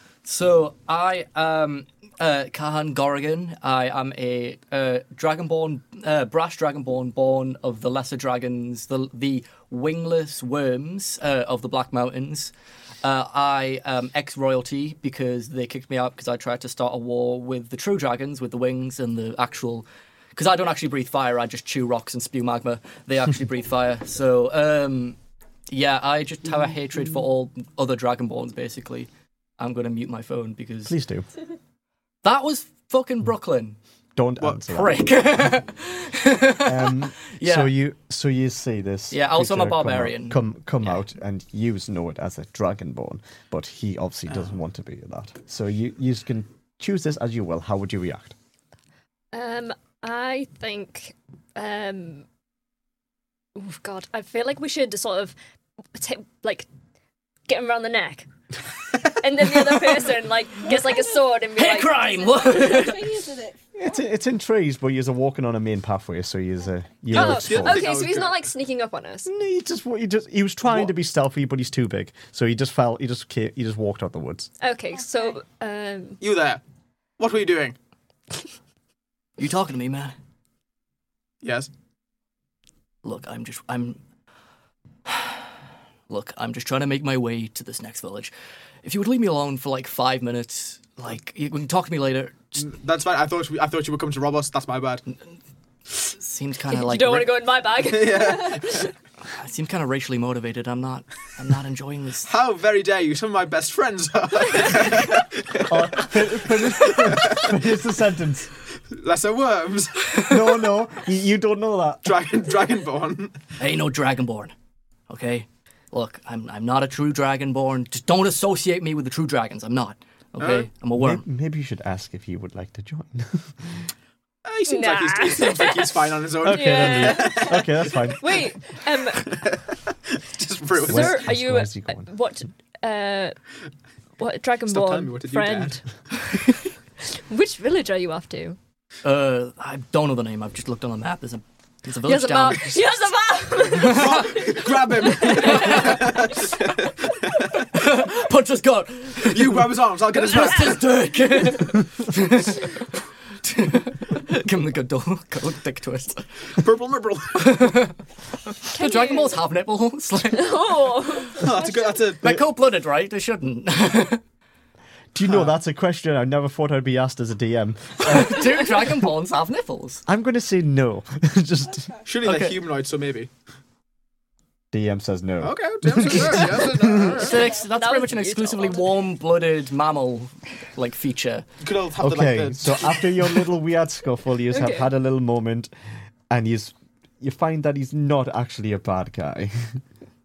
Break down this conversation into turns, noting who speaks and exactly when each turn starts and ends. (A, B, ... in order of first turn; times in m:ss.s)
0:00.2-0:25.2 A
0:25.7-0:31.0 A
0:30.8-0:31.3 B
0:32.2-0:33.8 A
0:34.2-0:35.0 B
0:34.7-0:37.7 A
0:36.6-0:48.3 B
0:39.1-0:40.4 A
0:49.3-0:52.2 C
0:53.6-0:55.3 C
0:55.9-0:56.7 C
0:57.5-0:58.3 C
0:58.9-1:02.1 C
1:00.7-1:01.1 D
1:01.5-1:03.2 A
1:01.8-1:03.8 D
1:03.8-1:07.9 B
1:07.1-1:08.4 E
1:07.1-1:09.3 C
1:09.2-1:14.5 B
1:10.7-1:10.9 E
1:14.6-1:16.2 C
1:16.2-1:16.6 E
1:17.2-1:17.8 E
1:19.4-1:20.1 A
1:21.4-1:21.7 E
1:23.0-1:24.0 A
1:25.0-1:25.5 A
1:26.1-1:28.3 A
1:28.8-1:32.6 A
1:32.6-1:35.0 E
1:35.9-1:37.4 A
1:36.7-1:38.9 C
1:37.8-1:38.8 E
1:39.3-1:42.3 A
1:42.2-1:47.6 E
1:45.7-1:48.5 B
1:48.9-1:50.4 E
1:50.2-1:52.2 B
1:52.0-1:53.4 E
1:53.6-1:54.5 A
1:55.1-2:01.2 A
2:00.4-2:00.7 E
2:00.9-2:03.9 B
2:04.4-2:08.3 E
2:04.7-2:09.3 C
2:06.4-2:08.4 B
2:09.1-2:11.3 E
2:10.8-2:13.4 C
2:10.8-2:12.1 B
2:14.2-2:16.5 C
2:14.7-2:15.8 E
2:17.1-2:18.6 C
2:19.0-2:22.8 A
2:22.0-2:26.2 C
2:23.7-2:24.2 A
2:23.7-2:27.7 E
2:25.4-2:26.0 A
2:27.7-2:32.9 A
2:29.3-2:30.8 E
2:33.4-2:36.4 A
2:36.6-2:37.4 E
2:37.4-2:38.0 A
2:38.6-2:40.6 A
2:38.7-2:39.4 C
2:40.3-2:41.5 C
2:41.4-2:42.0 D
2:41.4-2:42.4 E
2:42.2-2:44.2 A
2:45.1-2:48.5 B
2:45.2-2:45.5 E
2:48.0-2:50.0 A
2:50.1-2:51.9 B
2:52.0-2:53.3 E
2:52.2-2:52.6 A
2:54.7-2:57.2 B
2:55.4-2:57.5 E
2:57.1-3:01.4 A
2:57.4-2:59.0 C
3:01.6-3:03.1 E
3:02.0-3:05.7 B
3:04.5-3:04.9 C
3:06.3-3:09.8 B